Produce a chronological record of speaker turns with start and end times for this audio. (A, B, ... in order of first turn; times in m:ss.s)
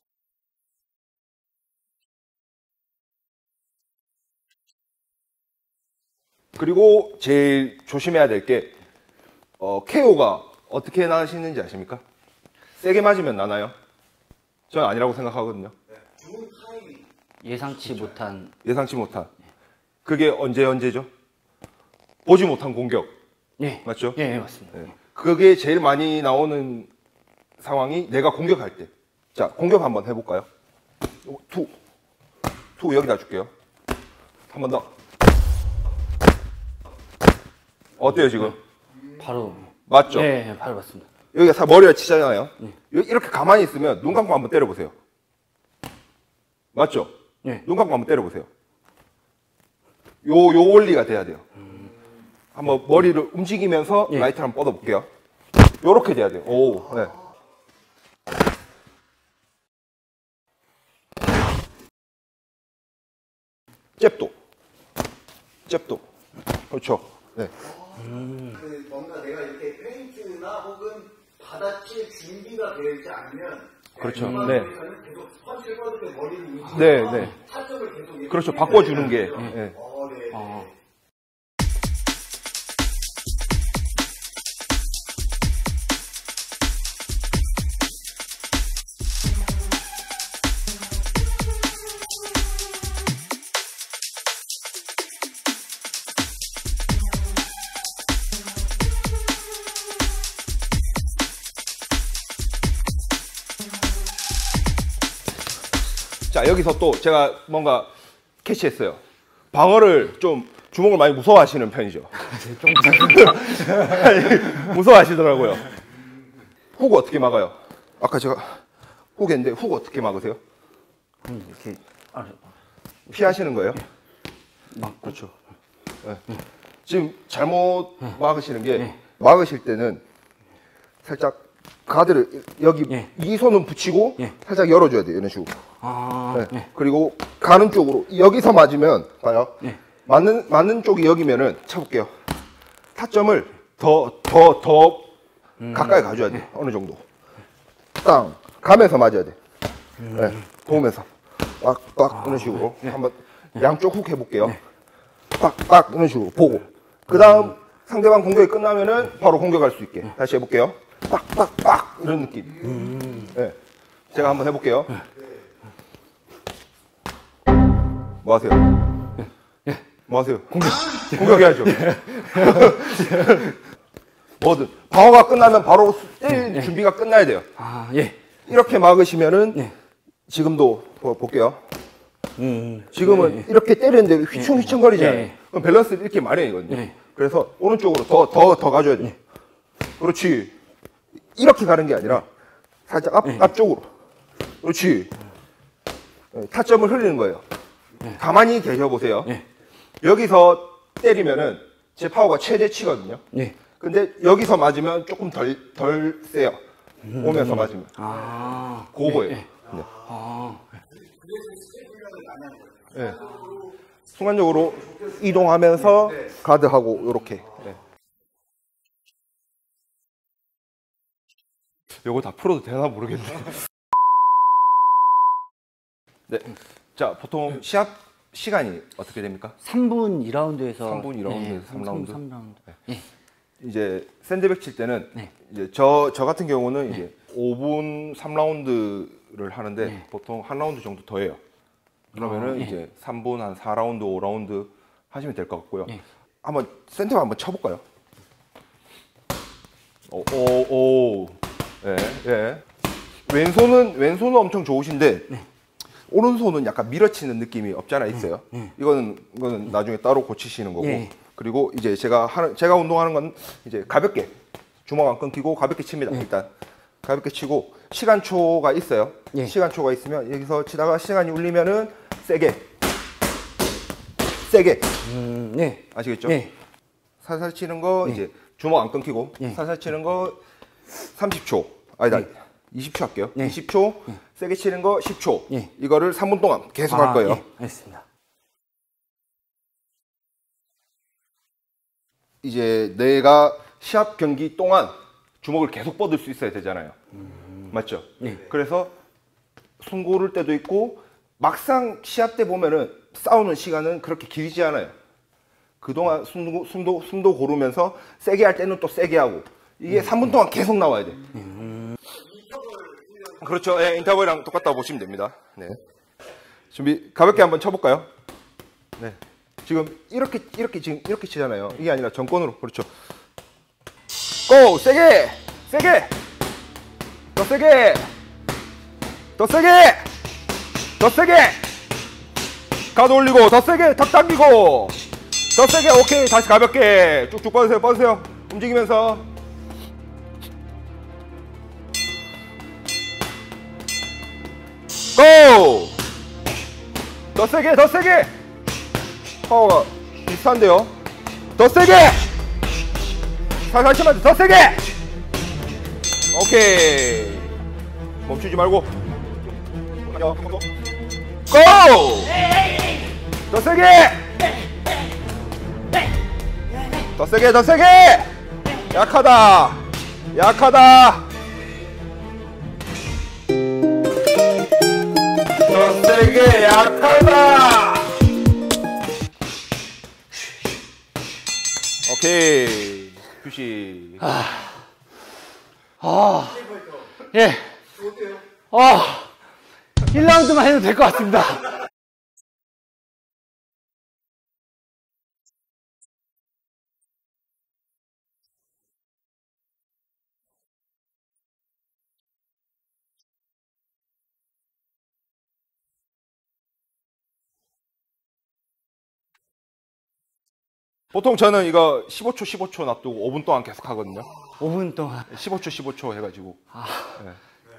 0:06.6-0:08.8 A
0:09.6-0:12.0 A
0:12.8-0:13.7 A
0:14.7-0:15.7 A
0:16.0-0:17.1 B
0:17.4-0:18.5 C
0:18.6-0:19.3 A
0:20.0-0:21.1 A
0:22.2-0:23.1 A
0:23.6-0:24.9 C
0:23.8-0:24.2 A
0:24.8-0:26.9 A
0:27.6-0:30.5 A
0:31.2-0:31.7 A
0:32.8-0:33.5 A
0:34.5-0:34.9 A
0:38.0-0:38.6 A
0:39.2-0:41.1 C
0:39.9-0:40.3 A
0:41.3-0:44.9 A
0:46.7-0:48.5 A
0:50.2-0:51.4 A
0:52.5-0:55.1 A
0:55.8-0:57.1 A
1:04.0-1:04.3 A
1:05.6-1:06.0 A
1:06.7-1:07.5 A
1:08.0-1:08.6 C
1:08.4-1:20.7 B
1:14.0-1:14.7 A
1:14.0-1:14.7 C
1:16.6-1:17.3 C
1:16.7-1:17.3 A
1:18.3-1:19.8 A
1:19.1-1:19.6 C
1:20.3-1:20.6 C
1:46.3-1:47.9 A
1:48.4-1:49.0 A
1:49.5-1:52.1 A
1:52.2-1:53.8 C
1:52.6-1:55.6 A
1:56.8-1:58.6 A
1:59.2-2:00.4 A
2:01.2-2:02.4 C
2:03.1-2:03.8 A
2:04.7-2:05.3 C
2:06.8-2:10.0 A
2:11.0-2:15.5 A
2:15.8-2:16.6 C
2:16.3-2:22.1 A
2:22.9-2:27.0 A
2:25.6-2:26.2 C
2:28.0-2:29.4 A
2:30.0-2:34.6 A
2:32.3-2:32.6 C
2:35.4-2:42.7 A
2:42.6-2:43.3 C
2:44.1-2:45.0 A
2:48.2-2:48.7 A
2:50.1-2:53.6 A
2:50.7-2:53.2 C
2:54.4-2:57.5 A
2:56.4-2:56.7 C
2:57.6-2:58.2 C
2:58.5-2:59.7 A
3:00.3-3:01.6 A
3:02.4-3:03.4 C
3:02.9-3:09.1 A
3:04.4-3:05.3 C
3:06.7-3:06.9 C
3:10.0-3:10.5 A
3:11.3-3:12.3 A
3:12.9-3:13.9 A
3:14.6-3:15.1 A
3:16.3-3:17.4 A
3:18.1-3:19.3 A
3:20.0-3:23.2 A
3:23.8-3:26.6 A
3:27.1-3:29.5 C
3:27.1-3:28.0 A
3:28.9-3:29.9 A
3:29.7-3:30.1 B
3:30.1-3:30.6 C
3:31.2-3:33.7 B
3:32.9-3:33.3 A
3:34.1-3:37.8 A
3:42.0-3:43.6 A
3:46.3-3:49.6 A
3:49.6-3:53.0 C
3:50.8-3:52.2 A
3:53.6-4:01.4 A
4:02.1-4:02.7 C
4:02.2-4:07.8 A
4:10.1-4:12.6 A
4:13.3-4:15.4 A
4:16.1-4:24.3 A
4:20.8-4:21.1 C
4:24.9-4:26.5 A
4:27.0-4:32.6 A
4:34.5-4:34.9 A
4:35.0-4:36.5 C
4:35.9-4:36.4 A
4:37.2-4:40.4 A
4:41.0-4:47.4 A
4:46.9-4:48.0 C
4:52.4-4:57.0 A
4:57.3-4:57.7 C
4:57.7-4:58.9 A
4:59.8-5:04.9 A
5:05.8-5:11.4 A
5:11.4-5:11.9 C
5:13.4-5:15.8 A
5:16.7-5:18.1 A
5:19.0-5:22.9 A
5:24.5-5:26.1 A
5:27.3-5:28.1 A
5:29.4-5:30.0 A
5:31.0-5:31.6 A
5:32.9-5:35.0 A
5:35.5-5:39.2 A
5:45.1-5:46.0 A
5:47.3-5:48.3 A
5:49.4-5:50.9 A
5:51.6-5:52.2 A
5:53.7-5:54.9 A
5:56.3-5:57.6 A
5:58.2-5:58.9 A
6:00.0-6:00.7 A
6:01.5-6:02.4 A
6:03.5-6:04.4 A
6:07.2-6:08.3 A
6:08.9-6:11.2 A
6:15.6-6:18.2 A
6:22.0-6:24.2 A
6:24.2-6:24.7 C
6:26.0-6:27.8 C
6:28.7-6:29.3 C
6:30.1-6:31.7 C
6:51.1-6:54.3 A
6:54.6-6:55.3 C
6:55.3-6:56.6 A
6:56.8-6:57.1 C